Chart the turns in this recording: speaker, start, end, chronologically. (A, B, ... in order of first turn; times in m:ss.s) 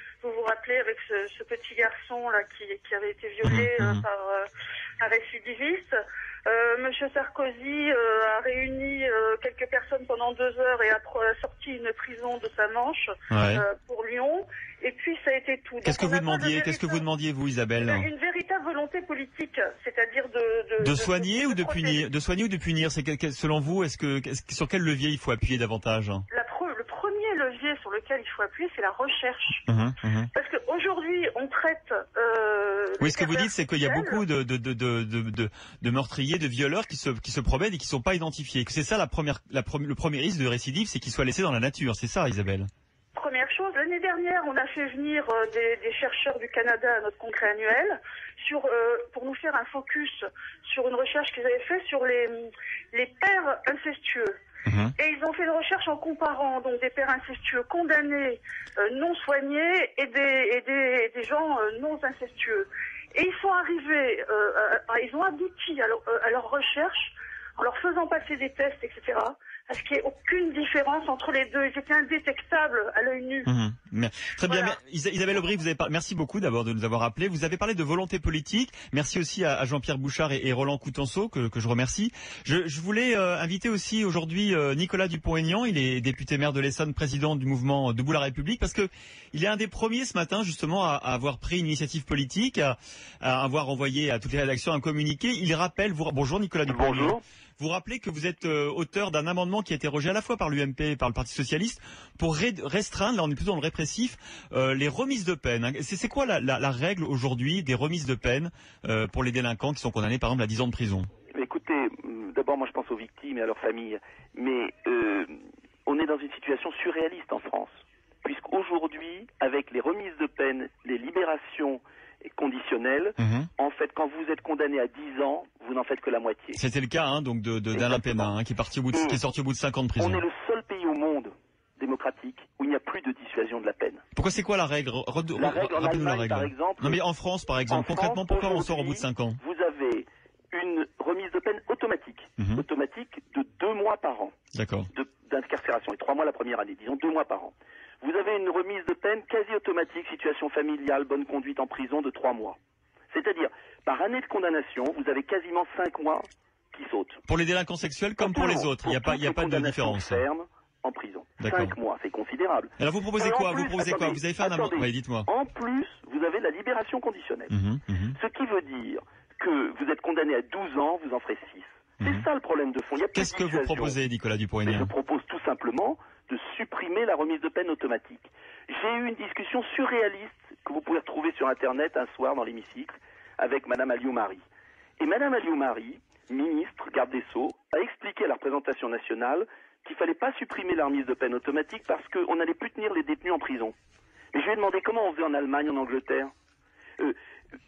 0:00.2-0:17.0 A
0:03.4-0:04.0 B
0:13.3-0:13.6 B
0:15.8-0:18.1 B
0:17.8-0:22.1 A
0:20.8-0:26.2 B
0:26.3-0:29.6 A
0:29.7-0:30.3 B
0:30.3-0:34.2 A
0:33.0-0:42.7 B
0:43.1-0:54.4 A
0:54.7-0:54.9 B
0:55.0-1:13.5 A
1:13.4-1:51.1 B
1:14.4-1:14.8 A
1:36.7-1:37.2 C
1:51.3-2:06.6 C
2:03.2-2:03.5 B
2:06.5-2:10.2 B
2:07.7-2:08.3 C
2:08.9-2:09.2 C
2:10.0-2:14.0 C
2:14.1-2:19.4 B
2:15.4-2:17.0 C
2:17.7-2:24.3 C
2:24.5-2:24.9 B
2:24.9-2:32.6 C
2:33.1-2:37.2 C
2:37.2-2:40.2 B
2:38.2-2:47.5 C
2:41.4-2:41.8 B
2:42.8-2:45.3 B
2:47.5-2:48.2 B
2:48.1-2:54.0 C
2:52.0-2:52.3 B
2:53.1-2:54.9 B
2:54.6-3:04.4 C
3:05.0-3:13.7 C
3:14.3-3:16.3 C